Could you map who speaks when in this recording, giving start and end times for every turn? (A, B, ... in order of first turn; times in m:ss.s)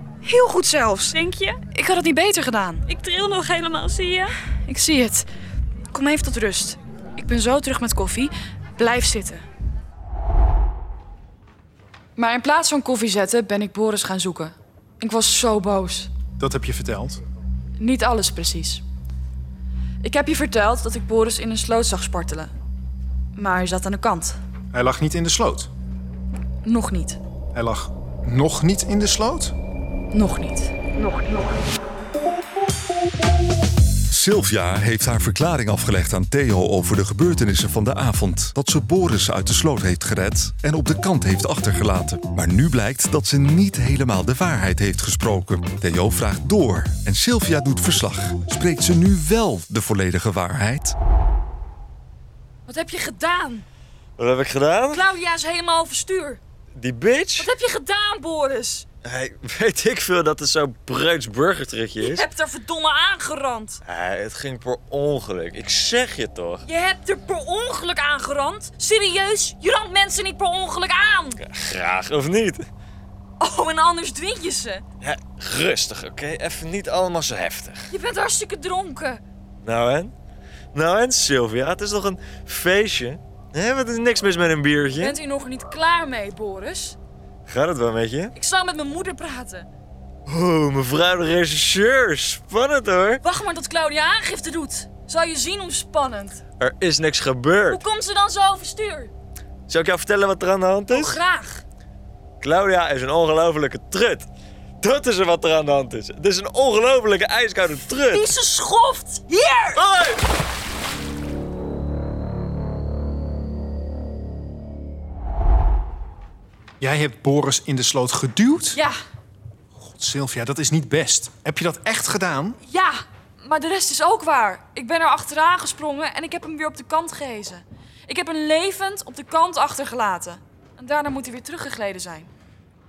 0:00.2-0:01.2 A
0:01.1-0:01.6 B
0:01.7-0:02.8 A
0:02.9-0:04.4 B
0:04.6-0:05.3 A
0:05.9-0:09.4 A
0:12.2-0:16.1 A
0:16.4-0:17.2 C
0:17.8-0:18.8 A
0:20.0-0:22.5 A
0:23.4-0:24.4 A
0:24.7-0:25.7 C
0:26.6-0:27.2 A
0:27.5-0:29.5 C
0:30.1-0:31.2 A
0:34.1-0:50.9 D
0:52.7-0:53.7 A
0:54.2-0:55.0 E
0:54.9-0:56.4 A
0:56.7-0:57.5 E
0:57.4-0:58.8 A
0:59.0-1:02.2 E
1:02.0-1:03.8 A
1:03.8-1:06.6 E
1:06.7-1:11.4 A
1:11.4-1:12.6 E
1:13.4-1:14.8 A
1:15.0-1:17.9 E
1:17.9-1:19.2 A
1:19.6-1:20.1 E
1:20.7-1:25.2 E
1:25.0-1:27.0 A
1:27.5-1:28.3 E
1:28.3-1:29.7 A
1:30.2-1:33.2 E
1:33.2-1:36.4 A
1:36.6-1:37.8 E
1:37.7-1:39.1 A
1:39.7-1:41.2 E
1:40.9-1:41.6 A
1:42.4-1:44.3 E
1:44.8-1:48.3 E
1:48.1-1:49.7 A
1:49.7-1:50.2 E
1:56.8-1:58.8 C
1:59.8-2:02.6 C
2:02.6-2:12.3 A